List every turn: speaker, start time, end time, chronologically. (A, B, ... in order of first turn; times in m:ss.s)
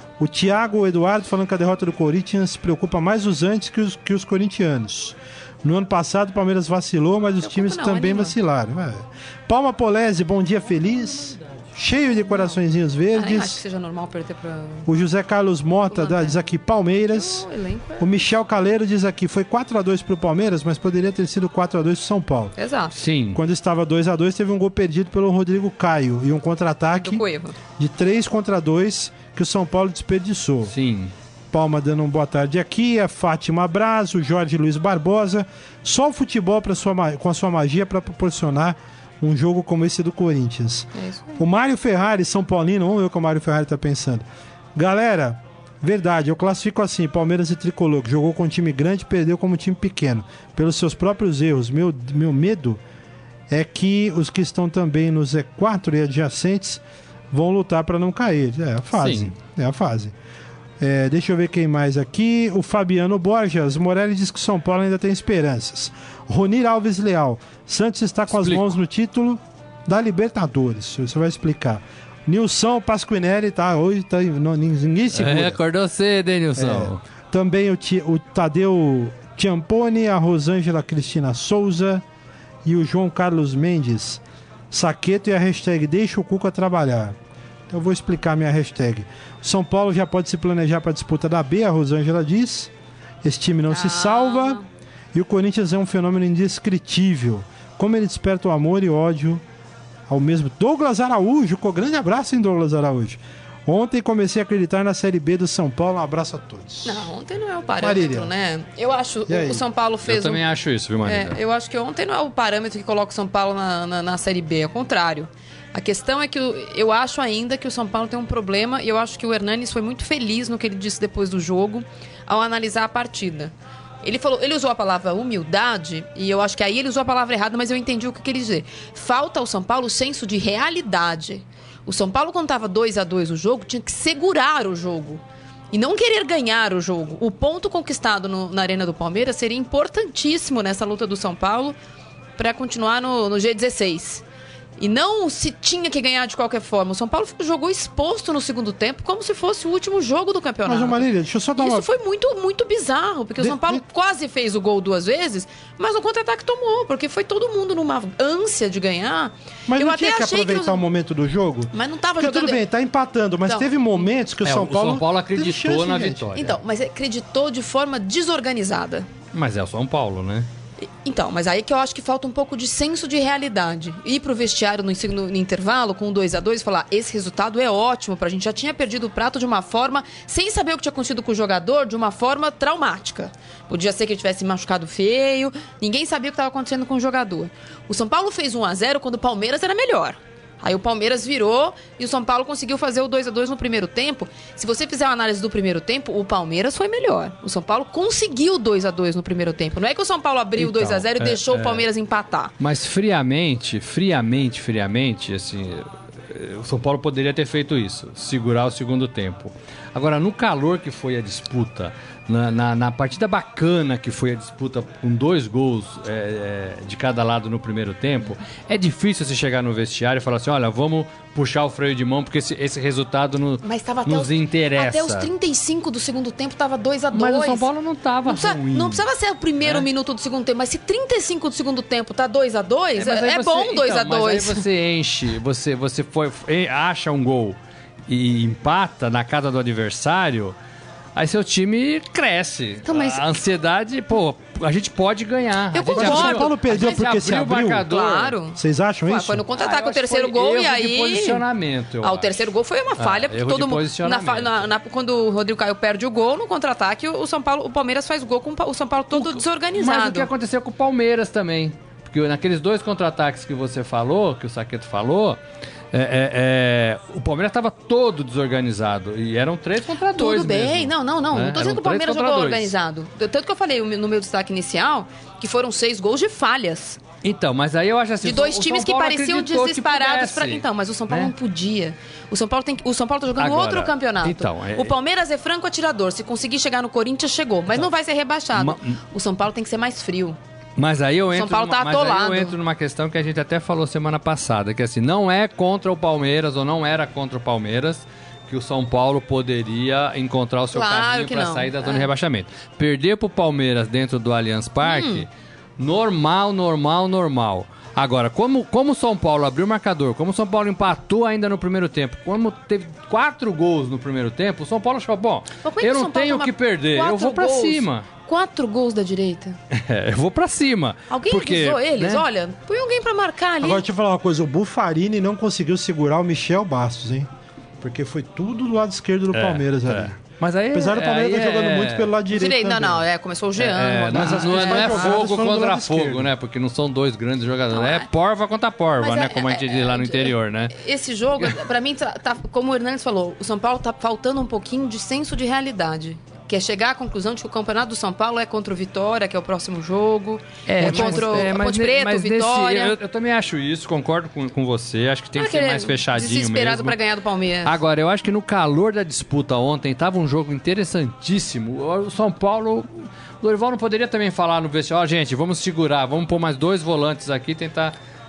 0:00.2-0:13.6 A
0:07.4-0:08.4 B
0:13.1-0:14.9 B
0:14.9-0:17.5 A
0:15.9-0:16.4 B
0:17.0-0:18.2 B
0:18.0-0:22.6 A
0:22.6-0:23.0 B
0:22.9-0:23.4 C
0:23.3-0:27.2 A
0:27.0-0:27.6 B
0:27.8-0:30.7 A
0:30.7-0:31.1 C
0:31.5-0:52.8 A
0:40.9-0:41.4 B
0:53.5-1:00.1 A
0:58.9-0:59.3 C
1:00.8-1:15.6 A
1:08.3-1:08.6 C
1:15.1-1:17.0 C
1:16.6-1:22.0 A
1:22.6-1:27.2 A
1:27.7-1:32.7 A
1:33.2-1:34.6 A
1:33.7-1:34.7 B
1:35.1-1:39.4 A
1:40.1-1:47.1 A
1:46.8-1:50.4 B
1:47.8-1:48.3 A
1:49.3-1:49.6 A
1:50.0-1:51.4 C
1:51.0-2:21.8 B
2:22.4-2:24.2 B
2:24.8-2:40.8 B
2:30.6-2:31.9 A
2:33.4-2:33.8 A
2:39.7-2:46.4 A
2:41.7-2:42.6 B
2:43.4-2:43.7 B
2:44.4-2:46.6 C
2:46.4-2:49.1 B
2:49.3-2:50.5 C
2:50.8-3:22.5 B
3:20.6-3:21.8 C
3:22.6-3:45.3 C
3:43.6-3:47.7 B
3:47.1-3:49.0 C
3:48.3-3:54.6 B
3:49.6-3:49.9 C
3:53.0-3:57.6 C
3:58.1-4:00.6 C
4:01.2-4:08.4 C
4:02.9-4:03.2 B
4:05.7-4:07.0 B
4:06.0-4:07.9 A
4:07.9-4:11.4 B
4:08.6-4:09.4 A
4:09.6-4:12.4 C
4:12.0-4:20.3 B
4:13.0-4:14.7 C
4:19.1-4:25.4 C
4:25.9-4:32.7 C
4:30.1-4:37.0 B
4:37.2-4:41.3 C
4:38.2-4:50.4 B
4:43.4-4:45.0 C
4:48.6-4:49.0 C
4:50.8-5:05.3 C
4:51.3-4:52.6 B
5:00.7-5:02.1 B
5:04.8-5:05.2 B
5:05.8-5:18.1 C
5:15.6-5:19.6 B
5:19.7-5:22.2 C
5:21.1-5:23.8 B
5:23.6-5:27.3 A
5:27.8-5:30.2 A
5:29.3-5:32.2 C
5:30.7-5:33.0 A
5:32.3-5:35.2 B
5:33.6-5:40.8 C
5:34.2-5:36.3 A
5:37.7-5:38.1 B
5:39.0-5:53.0 B
5:50.7-5:57.0 C
5:55.4-5:57.8 B
5:57.6-6:08.0 C